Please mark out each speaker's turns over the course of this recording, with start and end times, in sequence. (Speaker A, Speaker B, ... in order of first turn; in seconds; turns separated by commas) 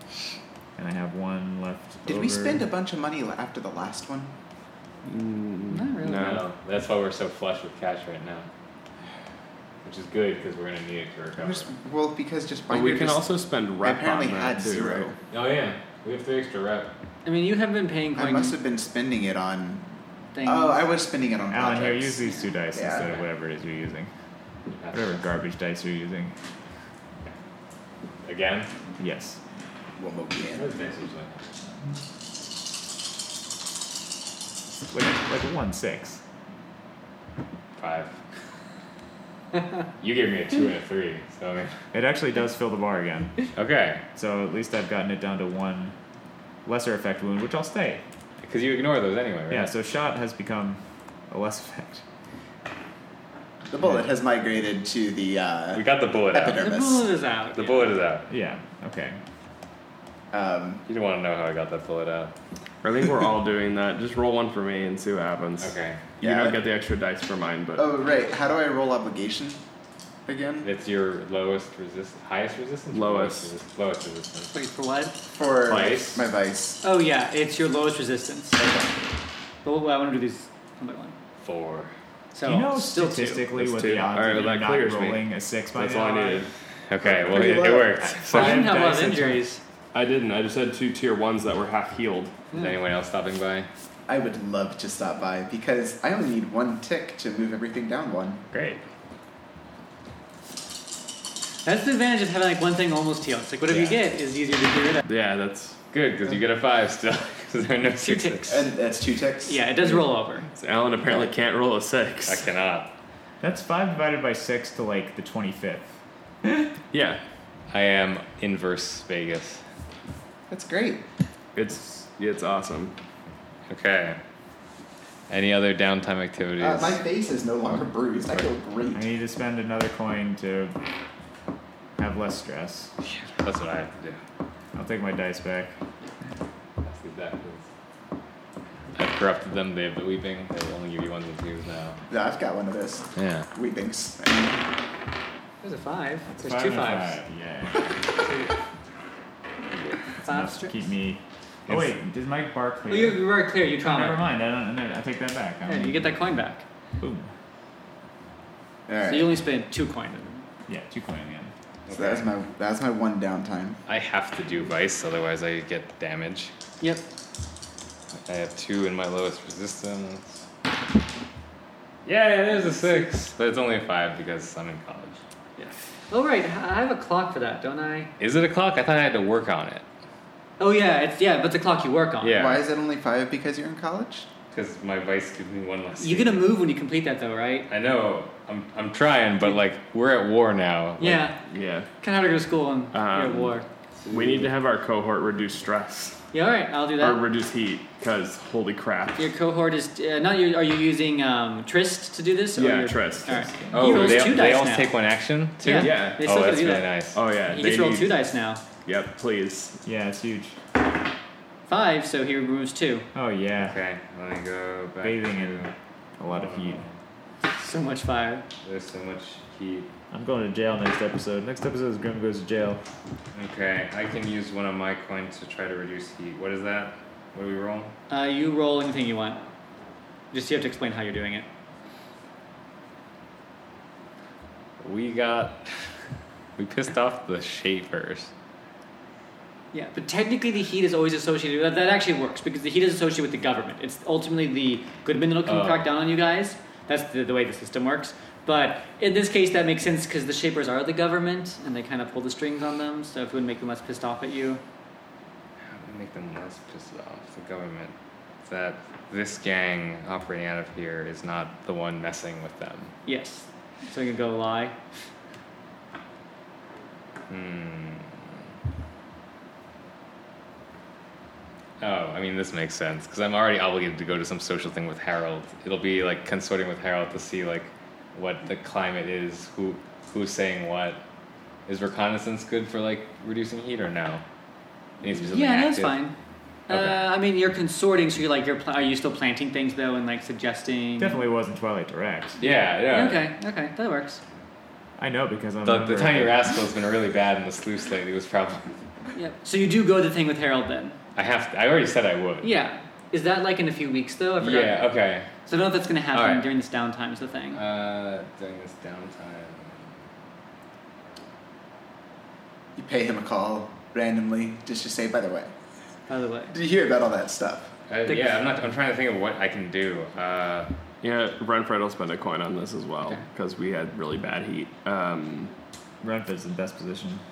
Speaker A: 0.8-2.6, Speaker B: 2.1-4.3, Speaker C: 5.0-6.4, Speaker D: 5.7-6.4, Speaker E: 6.1-8.5, Speaker E: 9.8-11.7, Speaker B: 11.4-13.2, Speaker C: 12.7-15.1, Speaker B: 13.8-15.2, Speaker E: 15.3-16.9, Speaker D: 17.2-18.6, Speaker B: 18.1-19.8, Speaker D: 20.3-20.8, Speaker B: 20.4-22.2, Speaker A: 21.5-24.1, Speaker B: 22.7-23.2, Speaker E: 24.7-25.2, Speaker A: 24.9-26.3, Speaker E: 28.2-28.7, Speaker A: 29.0-29.4, Speaker B: 30.0-30.7, Speaker E: 30.5-31.6, Speaker A: 34.9-36.2, Speaker E: 37.8-38.1, Speaker E: 40.0-41.7, Speaker A: 41.9-43.5, Speaker E: 43.5-44.0, Speaker A: 44.1-46.0, Speaker A: 46.6-48.0, Speaker E: 48.4-49.7, Speaker A: 49.5-52.0, Speaker B: 53.7-57.1, Speaker E: 55.7-56.6, Speaker D: 56.6-57.9, Speaker E: 57.5-58.3, Speaker A: 58.3-59.2, Speaker B: 60.3-60.8, Speaker E: 60.9-62.3, Speaker C: 62.8-67.9, Speaker E: 65.6-66.0, Speaker B: 66.2-66.6, Speaker B: 67.8-69.6, Speaker B: 70.3-70.7, Speaker E: 70.6-74.5, Speaker C: 72.9-73.5, Speaker D: 74.5-75.2, Speaker B: 75.3-76.8, Speaker E: 75.7-76.2, Speaker C: 75.7-76.2, Speaker D: 76.8-78.6, Speaker B: 78.6-78.9, Speaker D: 79.6-81.2, Speaker E: 81.4-81.9, Speaker D: 82.3-83.5, Speaker A: 82.4-86.5, Speaker C: 83.6-86.5, Speaker E: 86.9-88.7, Speaker B: 87.0-88.0, Speaker A: 88.2-89.5, Speaker D: 88.3-89.6, Speaker C: 89.9-92.3, Speaker E: 92.5-93.7, Speaker B: 94.1-98.4, Speaker D: 101.7-105.1, Speaker E: 103.7-104.0, Speaker C: 105.1-105.8, Speaker E: 105.9-108.5, Speaker D: 108.0-108.7, Speaker B: 108.5-110.1, Speaker D: 109.5-110.5, Speaker C: 110.5-112.5, Speaker E: 112.3-112.9, Speaker A: 113.4-115.9, Speaker A: 116.4-116.7, Speaker C: 116.9-117.2, Speaker E: 117.7-119.6, Speaker B: 120.5-121.0, Speaker C: 121.5-122.9, Speaker E: 123.7-124.2, Speaker E: 125.3-127.0, Speaker B: 126.6-129.1, Speaker A: 128.9-130.8, Speaker A: 132.0-132.9, Speaker E: 133.1-134.2, Speaker A: 134.8-135.7, Speaker E: 136.8-137.7, Speaker E: 138.9-142.0, Speaker B: 142.1-144.6, Speaker E: 143.2-143.5, Speaker D: 145.6-147.2, Speaker A: 146.3-148.0, Speaker D: 148.2-148.5, Speaker D: 150.2-150.8, Speaker A: 150.2-156.2, Speaker D: 152.9-154.3, Speaker D: 155.7-156.6, Speaker A: 157.0-157.3, Speaker B: 158.9-159.3, Speaker D: 159.0-160.4, Speaker A: 160.7-161.5, Speaker E: 161.9-162.3, Speaker B: 161.9-163.8, Speaker E: 163.9-166.5, Speaker E: 168.3-170.4, Speaker E: 172.1-175.2, Speaker D: 172.7-173.0, Speaker D: 175.6-178.1, Speaker E: 178.2-179.8, Speaker D: 180.6-182.4, Speaker E: 182.2-182.6, Speaker B: 182.3-184.3, Speaker E: 184.5-186.4, Speaker D: 186.0-187.7, Speaker E: 187.7-191.2, Speaker D: 191.0-191.4, Speaker C: 191.5-191.9, Speaker D: 192.0-193.7, Speaker C: 192.9-193.6, Speaker E: 194.0-194.5, Speaker C: 194.1-196.2, Speaker D: 196.3-197.2, Speaker C: 197.0-199.3, Speaker D: 199.2-204.9, Speaker C: 202.6-204.4, Speaker A: 203.7-204.1, Speaker E: 203.7-207.2, Speaker D: 205.6-208.6, Speaker C: 205.8-206.2, Speaker C: 207.1-208.2, Speaker C: 208.8-209.8, Speaker A: 209.8-210.6, Speaker D: 211.7-213.1, Speaker A: 213.2-213.8, Speaker E: 213.7-215.7, Speaker A: 215.0-216.8, Speaker E: 216.3-216.9, Speaker D: 217.6-218.4, Speaker E: 218.6-219.9, Speaker A: 220.1-222.8, Speaker E: 223.3-227.9, Speaker D: 228.1-229.4, Speaker D: 230.3-231.5, Speaker E: 234.8-235.9, Speaker E: 236.6-238.3, Speaker D: 239.7-254.6, Speaker E: 245.5-245.9, Speaker E: 255.7-257.9, Speaker E: 258.5-262.9, Speaker D: 263.1-264.8, Speaker E: 267.3-268.3, Speaker E: 271.8-281.0, Speaker E: 281.7-284.2, Speaker E: 285.0-286.0, Speaker D: 285.3-286.1, Speaker D: 286.7-291.2, Speaker E: 286.7-287.1, Speaker A: 291.0-292.4, Speaker E: 292.4-293.3, Speaker D: 292.4-294.2, Speaker A: 295.0-296.5, Speaker E: 295.6-298.7, Speaker D: 299.1-301.0, Speaker E: 301.2-302.5, Speaker D: 302.4-304.9, Speaker E: 304.4-305.3, Speaker D: 305.5-307.6, Speaker E: 306.1-306.5, Speaker E: 307.5-309.9, Speaker B: 312.8-315.5, Speaker D: 316.1-316.6, Speaker B: 316.5-317.7, Speaker E: 317.9-320.7, Speaker D: 318.1-318.4, Speaker C: 321.0-325.5, Speaker A: 326.0-327.2